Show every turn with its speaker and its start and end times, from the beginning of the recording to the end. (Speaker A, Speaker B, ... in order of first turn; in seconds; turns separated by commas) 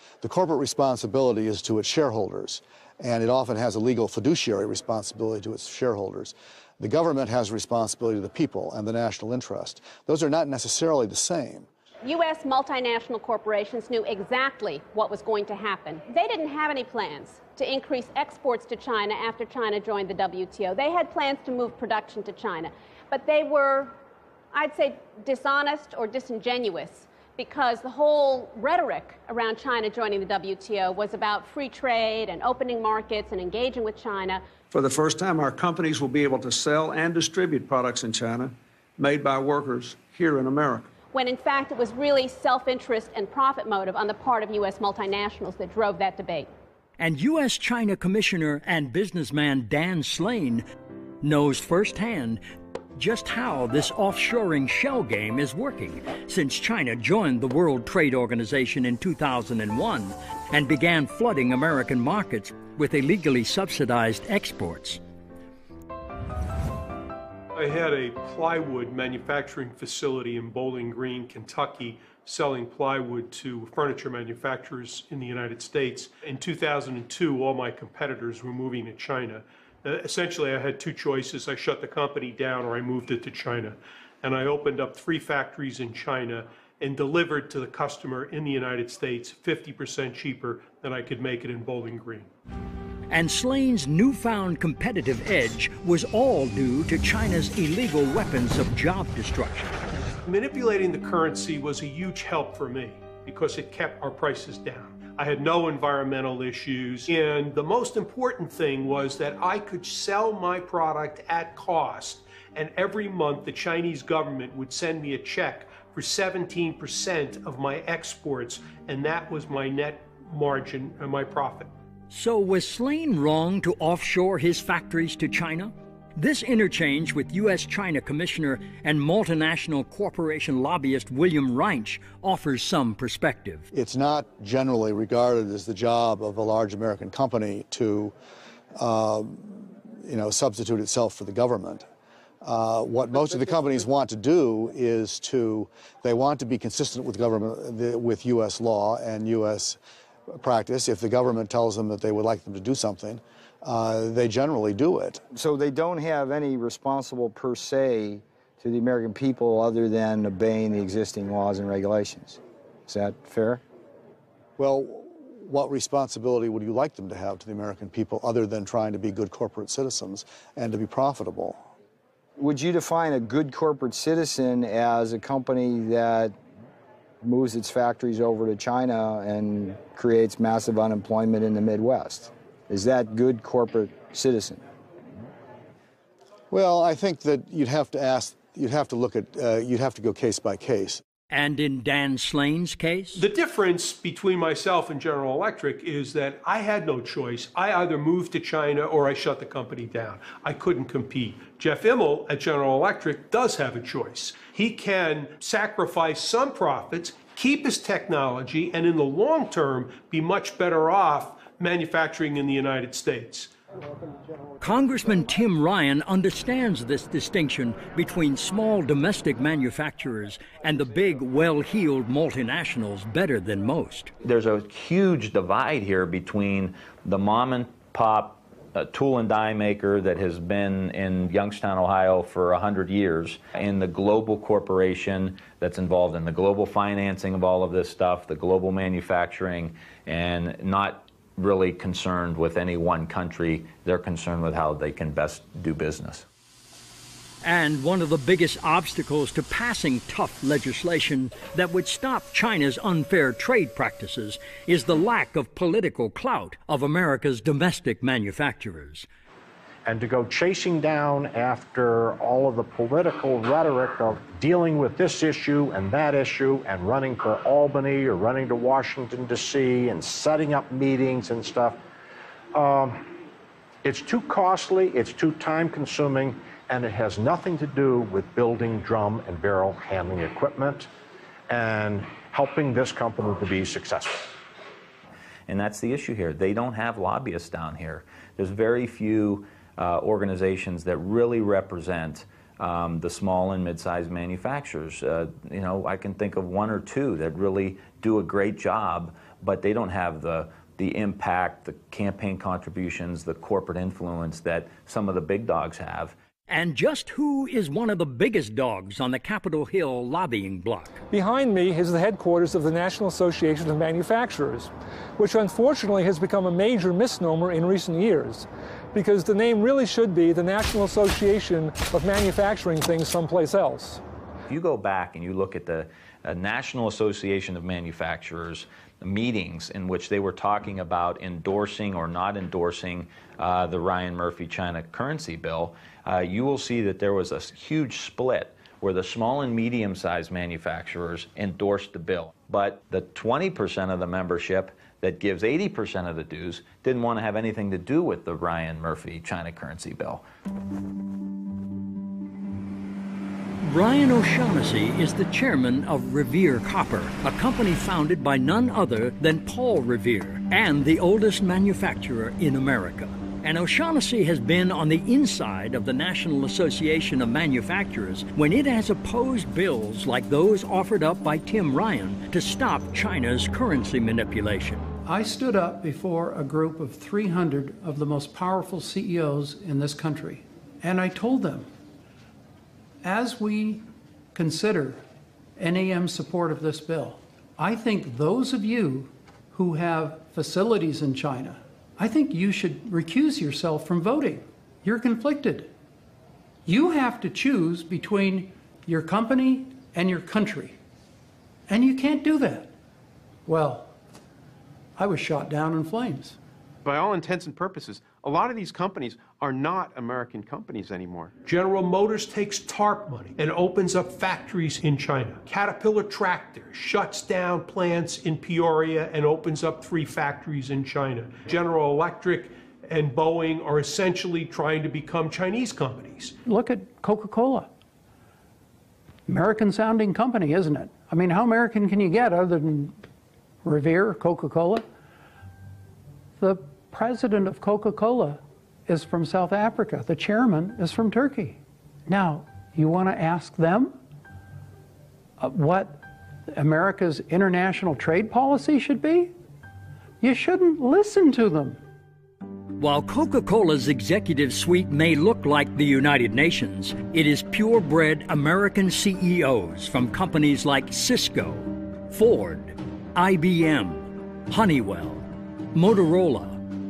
Speaker A: 0.2-11.7, Speaker B: 12.0-23.9, Speaker B: 24.5-34.4, Speaker C: 34.7-40.9, Speaker B: 41.1-46.5, Speaker D: 47.0-50.6, Speaker D: 51.2-52.4, Speaker D: 53.0-65.0, Speaker E: 67.5-92.3, Speaker D: 93.1-99.8, Speaker E: 100.2-121.7, Speaker D: 122.1-133.7, Speaker A: 133.7-138.1, Speaker A: 138.8-141.8, Speaker A: 142.4-149.8, Speaker A: 150.4-155.2, Speaker F: 155.3-163.6, Speaker A: 164.6-171.6, Speaker F: 172.4-176.3, Speaker F: 177.2-184.6, Speaker A: 186.5-191.0, Speaker D: 191.3-193.3, Speaker E: 193.2-213.5, Speaker D: 214.6-224.1, Speaker G: 224.4-246.2, Speaker D: 247.4-259.1, Speaker H: 259.9-271.8, Speaker H: 272.5-273.1, Speaker H: 273.8-280.9, Speaker H: 281.5-284.3, Speaker G: 285.5-306.1, Speaker D: 306.5-311.0, Speaker I: 311.1-324.0, Speaker G: 324.5-350.2, Speaker D: 353.6-374.9, Speaker J: 375.1-381.7, Speaker J: 383.0-385.0, Speaker J: 385.6-395.7, Speaker J: 396.7-400.8, Speaker J: 401.7-402.7, Speaker J: 403.5-403.9, Speaker J: 405.0-406.4, Speaker K: 406.9-411.3, Speaker E: 411.4-426.4, Speaker J: 426.4-427.7, Speaker J: 429.3-433.0, Speaker J: 433.6-434.9, Speaker J: 436.4-444.0, Speaker J: 445.4-449.3, Speaker J: 450.2-451.8, Speaker D: 452.8-466.6